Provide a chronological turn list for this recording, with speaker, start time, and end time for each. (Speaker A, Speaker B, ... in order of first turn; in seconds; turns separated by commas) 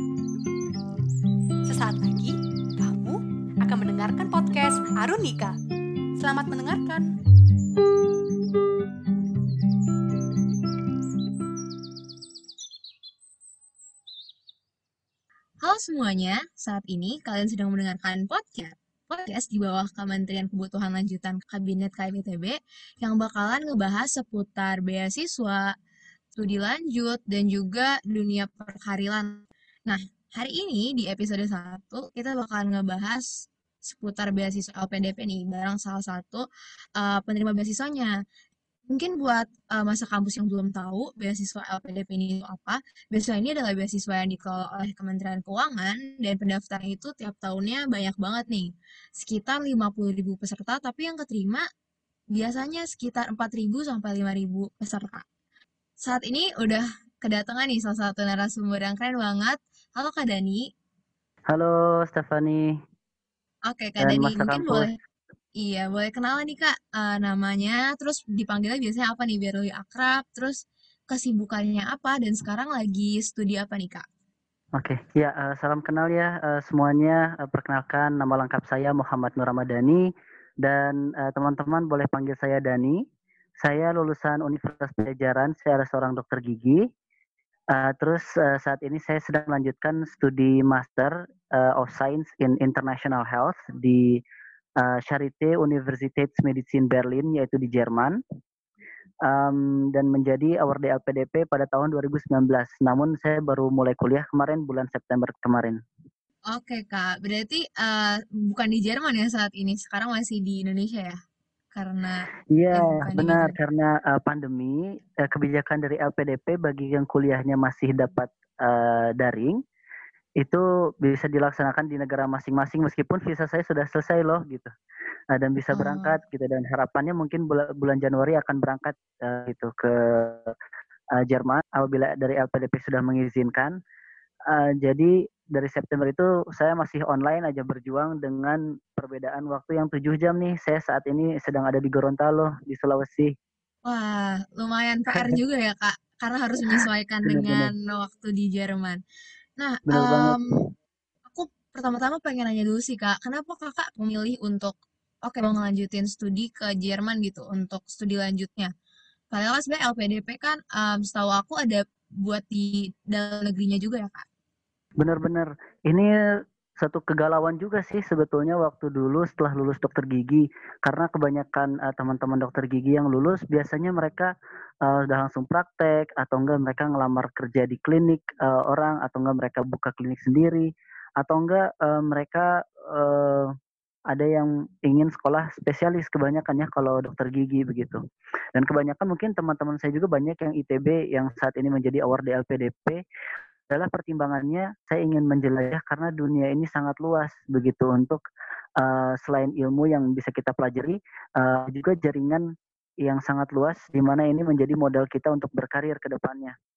Speaker A: 1.7-5.6, Speaker A: 6.2-7.1, Speaker B: 15.6-25.7, Speaker B: 26.4-36.5, Speaker B: 37.0-38.2, Speaker B: 38.9-51.6, Speaker B: 52.3-55.2, Speaker B: 56.0-60.7, Speaker C: 61.5-62.8, Speaker B: 63.7-64.9, Speaker C: 64.0-64.9, Speaker B: 65.6-74.0, Speaker C: 74.8-80.1, Speaker C: 80.6-83.0, Speaker C: 83.6-86.8, Speaker C: 87.7-94.2, Speaker C: 94.8-98.2, Speaker C: 99.2-105.8, Speaker B: 106.5-111.2, Speaker B: 111.7-113.6, Speaker C: 112.5-119.6, Speaker C: 120.4-124.7, Speaker C: 125.3-130.6, Speaker B: 125.7-126.2, Speaker C: 131.2-133.8, Speaker C: 134.5-143.3, Speaker B: 143.8-149.0, Speaker C: 145.1-145.4, Speaker C: 146.7-147.7, Speaker B: 149.6-150.4, Speaker C: 149.9-150.6, Speaker B: 151.3-158.7, Speaker B: 159.3-164.3, Speaker C: 165.0-166.1, Speaker C: 166.8-174.3, Speaker C: 174.8-183.5, Speaker C: 184.1-188.0, Speaker C: 188.6-193.0, Speaker C: 193.7-198.2, Speaker C: 198.8-202.4, Speaker C: 203.0-206.6